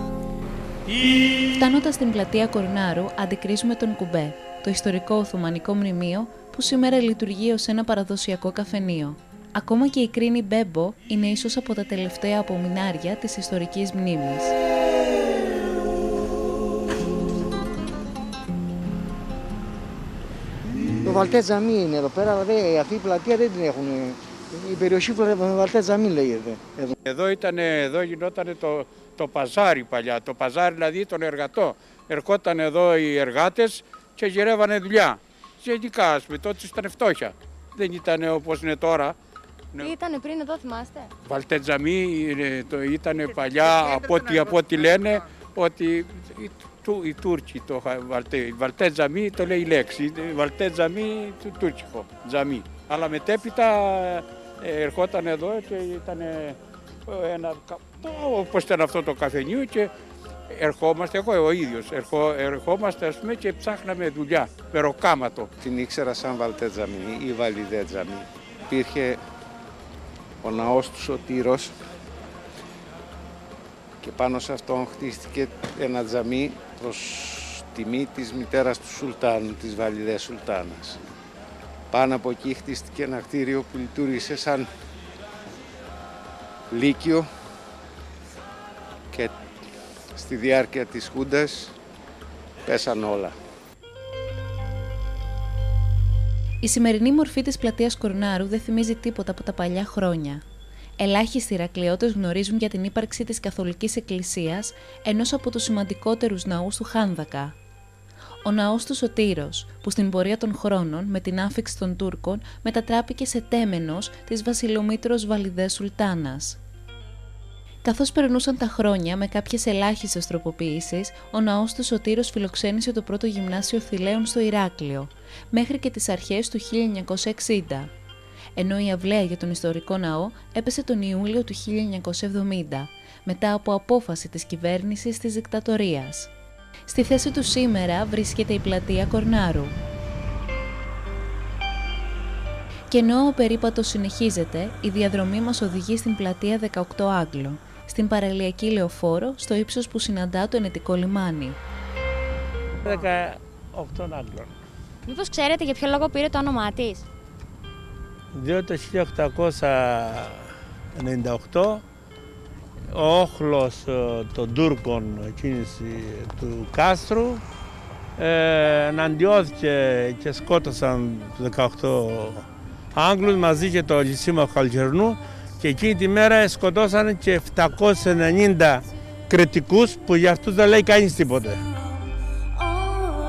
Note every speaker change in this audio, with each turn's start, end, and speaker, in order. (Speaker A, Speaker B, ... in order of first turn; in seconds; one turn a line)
Speaker A: 0.9-1.4
Speaker B: 1.6-14.5
Speaker C: 21.0-26.9
Speaker D: 27.1-39.2
Speaker E: 39.8-41.1
Speaker D: 41.2-59.9
Speaker D: 60.5-65.5
Speaker F: 65.6-69.2
Speaker F: 70.4-71.7
Speaker F: 74.0-81.0
Speaker F: 81.9-84.7
Speaker F: 86.7-87.3
Speaker F: 90.2-91.8
Speaker F: 92.7-93.3
Speaker B: 96.6-100.4
Speaker B: 101.0-107.6
Speaker B: 108.4-116.6
Speaker B: 117.8-127.9
Speaker B: 128.6-136.3
Speaker B: 136.9-139.7
Speaker B: 142.9-151.6
Speaker A: 152.8-154.5
Speaker E: 155.1-157.1
Speaker A: 158.3-161.8
Speaker A: 162.9-167.4
Speaker A: 168.2-181.6